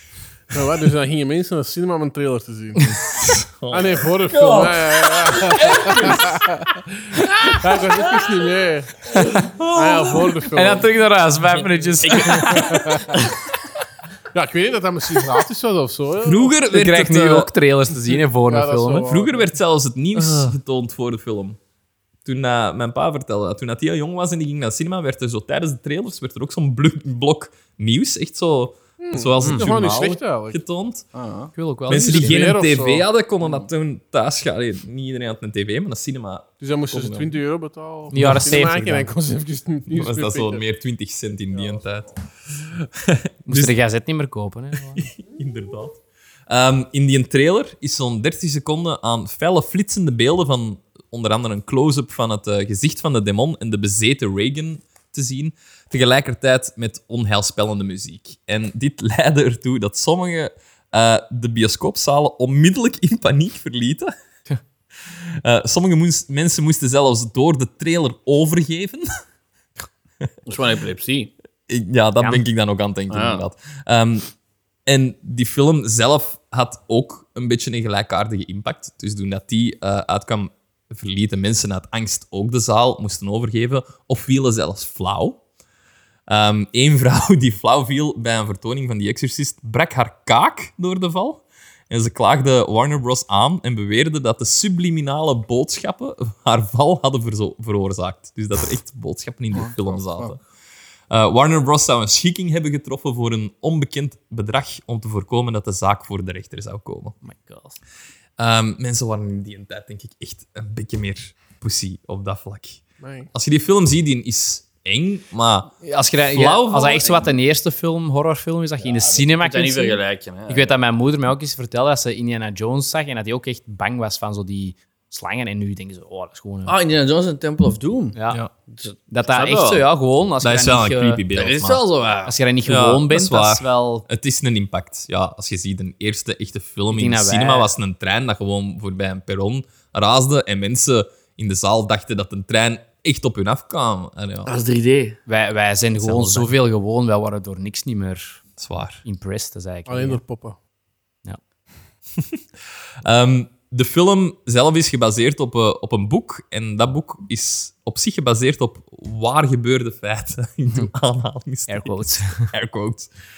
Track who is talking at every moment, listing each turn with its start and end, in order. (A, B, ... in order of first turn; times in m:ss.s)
0:00.5-0:03.0 A
0:02.9-0:06.6 B
0:03.7-0:10.9 A
0:07.4-0:07.8 B
0:09.1-0:09.4 C
0:09.3-0:10.4 B
0:10.5-0:13.0 C
0:12.0-0:12.5 D
0:12.3-0:13.2 A
0:12.3-0:12.9 B
0:14.3-0:16.6 A
0:16.2-0:17.5 B
0:16.7-0:19.1 C
0:18.5-0:19.5 A
0:19.0-0:21.6 B
0:20.2-0:20.5 C
0:22.2-0:31.0 B
0:29.0-0:30.6 A
0:31.1-0:31.5 D
0:31.6-0:32.4 C
0:31.9-0:37.4 B
0:31.9-0:33.0 A
0:36.6-0:40.6 A
0:38.1-0:39.1 C
0:39.9-0:43.8 B
0:43.5-0:45.1 C
0:44.9-1:04.1 B
1:05.0-1:09.1 B
1:10.5-1:11.3 D
1:11.7-1:14.3 B
1:12.2-1:12.4 C
1:13.1-1:13.5 D
1:14.9-1:25.4 B
1:26.3-1:40.4 B
1:39.5-1:40.3 D
1:41.1-1:47.2 B
1:47.2-1:47.8 C
1:48.4-1:52.8 B
1:53.0-1:53.3 A
1:53.3-1:57.3 B
1:55.8-2:06.8 C
1:58.9-2:00.8 D
2:06.6-2:09.8 D
2:08.1-2:08.4 C
2:09.1-2:11.2 C
2:10.4-2:11.8 B
2:11.3-2:12.4 D
2:12.3-2:14.1 C
2:12.7-2:24.5 B
2:16.9-2:17.7 C
2:24.5-2:25.2 D
2:25.3-2:28.4 C
2:26.0-2:26.5 B
2:28.6-2:29.0 B
2:29.0-2:30.2 C
2:29.9-2:30.6 A
2:33.0-2:43.1 B
2:41.7-2:42.5 C